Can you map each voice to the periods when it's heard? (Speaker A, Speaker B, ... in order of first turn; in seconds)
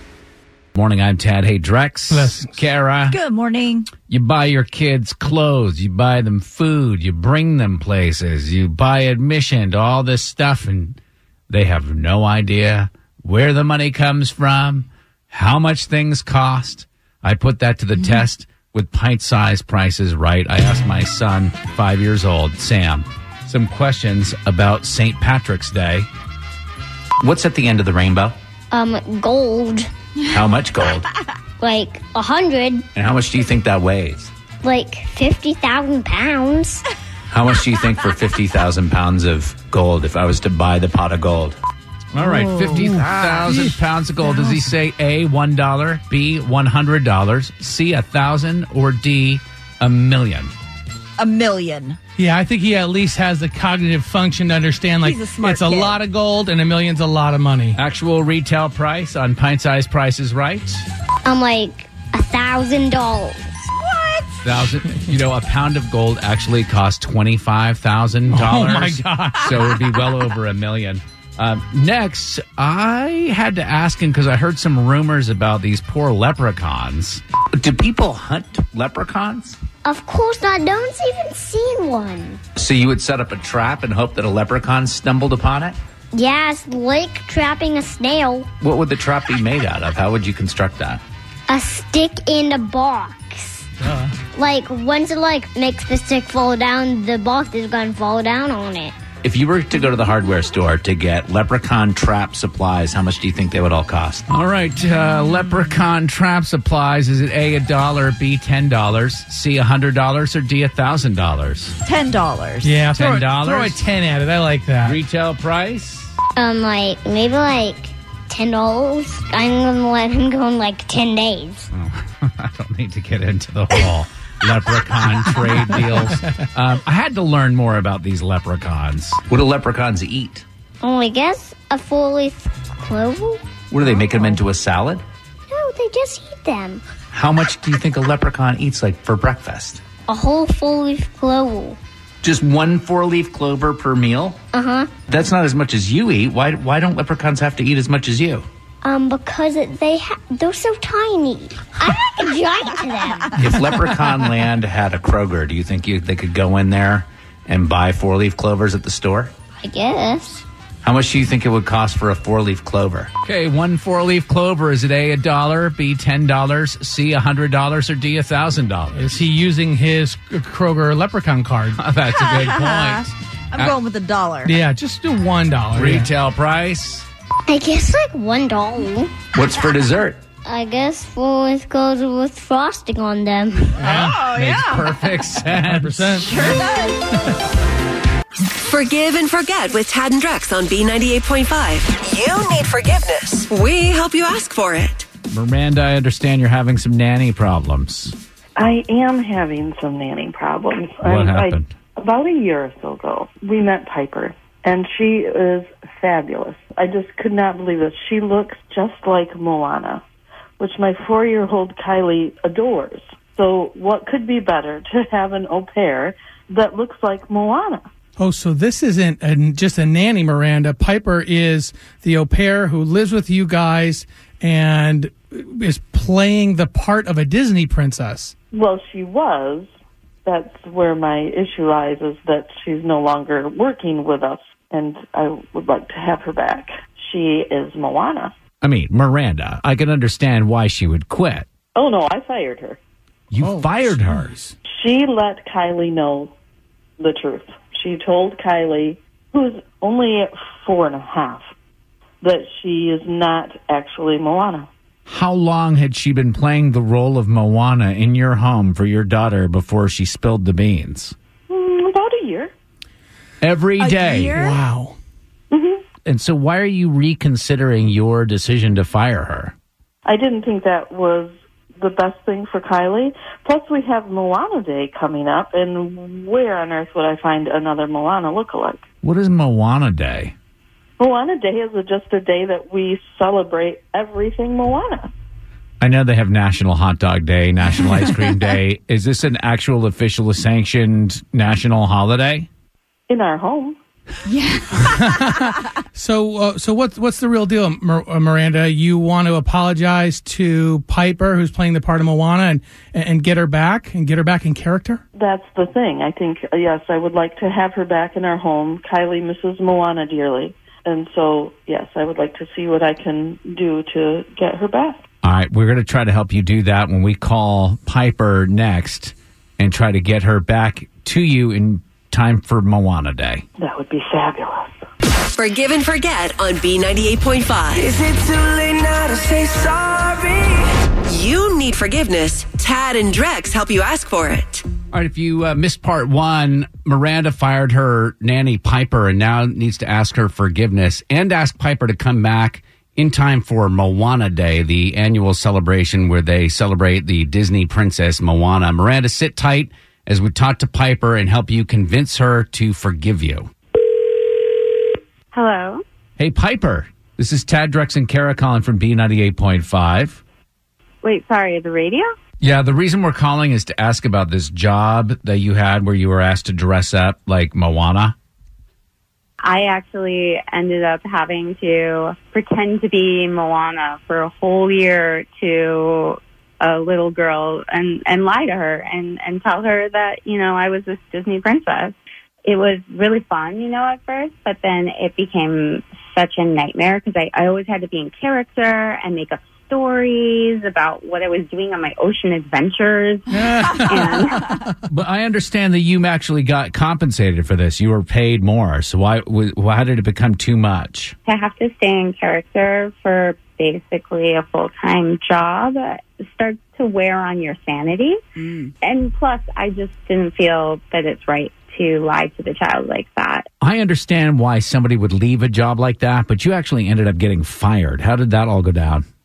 Speaker A: 0.7-3.2, 4.0-11.0, 11.5-26.1, 27.2-28.3, 30.3-31.1, 32.9-34.3, 37.3-41.5, 42.1-50.5, 57.7-60.9, 64.4-79.6, 82.5-85.8, 88.6-91.0, 99.2-111.7, 112.9-113.8, 114.8-116.1, 121.7-130.4, 133.7-135.0, 137.1-139.8, 142.2-144.4, 145.1-148.4, 153.3-159.3, 160.8-169.0, 171.7-173.7, 175.7-177.0, 179.3-180.2, 183.9-186.2, 195.3-198.1, 201.0-201.7, 238.6-241.5, 243.3-244.3, 255.1-261.1, 263.4-264.4, 266.0-269.5, 279.0-280.3, 285.8-292.5, 315.2-323.4, 334.9-353.5, 356.2-360.2, 362.4-368.1, 394.9-401.1, 413.6-419.0
Speaker B: 2.1-2.6, 42.7-43.8, 52.2-57.8, 68.3-70.1, 93.8-94.1, 112.6-115.0, 125.2-126.4, 168.9-171.8, 174.4-176.1, 183.8-184.4, 185.3-186.6, 218.2-228.3, 243.3-244.5, 264.3-265.0, 294.9-305.0, 393.3-394.7
Speaker C: 3.1-3.9, 42.2-43.6, 51.2-52.0, 55.0-56.0, 63.7-64.4, 111.8-112.9, 172.1-174.5, 183.8-184.9, 186.2-187.0, 263.8-264.6, 288.0-288.4, 294.2-295.6, 408.4-408.7
Speaker D: 28.7-29.9, 31.6-32.9, 34.6-36.9, 61.2-63.5, 79.8-82.4, 86.1-88.5, 91.5-93.7, 94.3-99.0, 116.3-121.7, 130.8-133.5, 135.5-136.8, 140.1-141.8, 144.5-144.9, 148.8-153.4, 159.6-160.4, 177.5-179.2, 180.4-183.8
Speaker E: 188.5-195.1, 325.3-327.9, 331.1-334.6
Speaker F: 198.6-210.0, 210.6-217.8, 228.5-229.7, 230.2-238.3, 241.7-242.8, 244.7-246.3, 247.0-251.4, 252.2-254.7, 261.5-262.5, 265.5-265.8, 270.1-278.8, 281.0-285.1, 293.1-293.8, 305.1-315.0, 323.6-324.8
Speaker G: 327.7-330.7
Speaker H: 355.3-355.8, 361.0-362.1, 369.4-381.9, 382.4-394.5, 401.2-408.2, 408.8-413.5